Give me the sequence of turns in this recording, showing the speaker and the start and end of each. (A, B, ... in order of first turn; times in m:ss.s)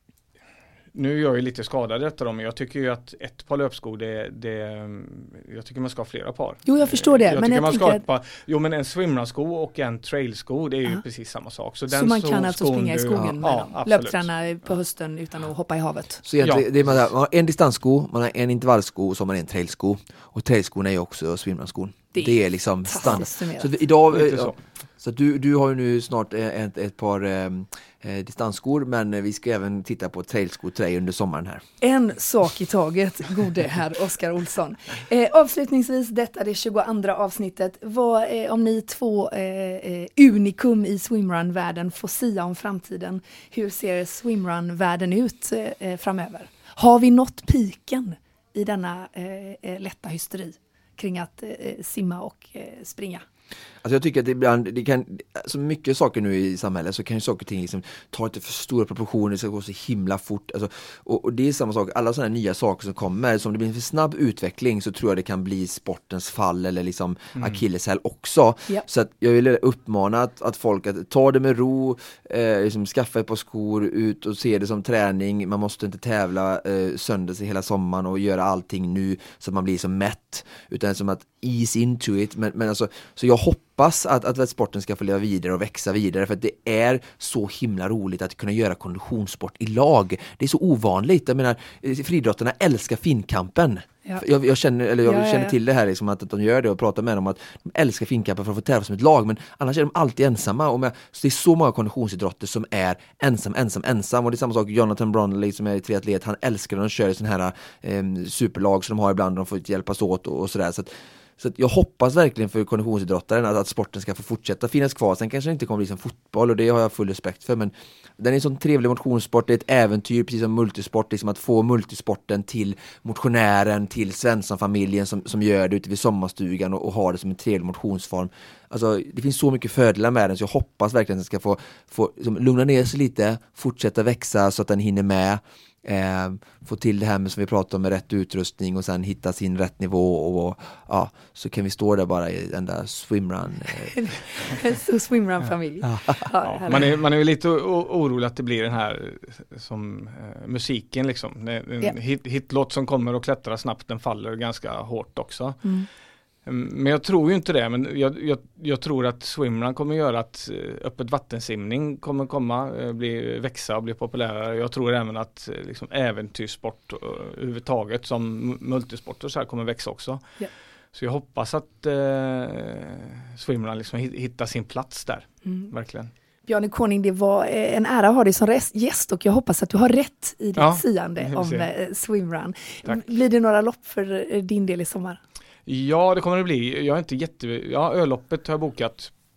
0:00.9-0:14.3 A
0:06.6-0:08.0 B
0:11.9-0:16.2 B
0:16.2-0:31.6 C
0:16.4-0:16.7 A
0:22.1-0:23.7 B
0:24.1-0:24.6 A
0:31.8-0:53.2 B
0:53.8-2:24.0 C
1:07.4-1:07.6 A
1:35.0-1:35.5 B
2:23.9-2:26.8 B
2:26.4-2:35.7 A
2:36.4-2:50.2 A
2:50.9-2:56.1 A
2:56.5-3:05.2 B
3:00.6-3:01.7 A
3:05.6-3:09.1 A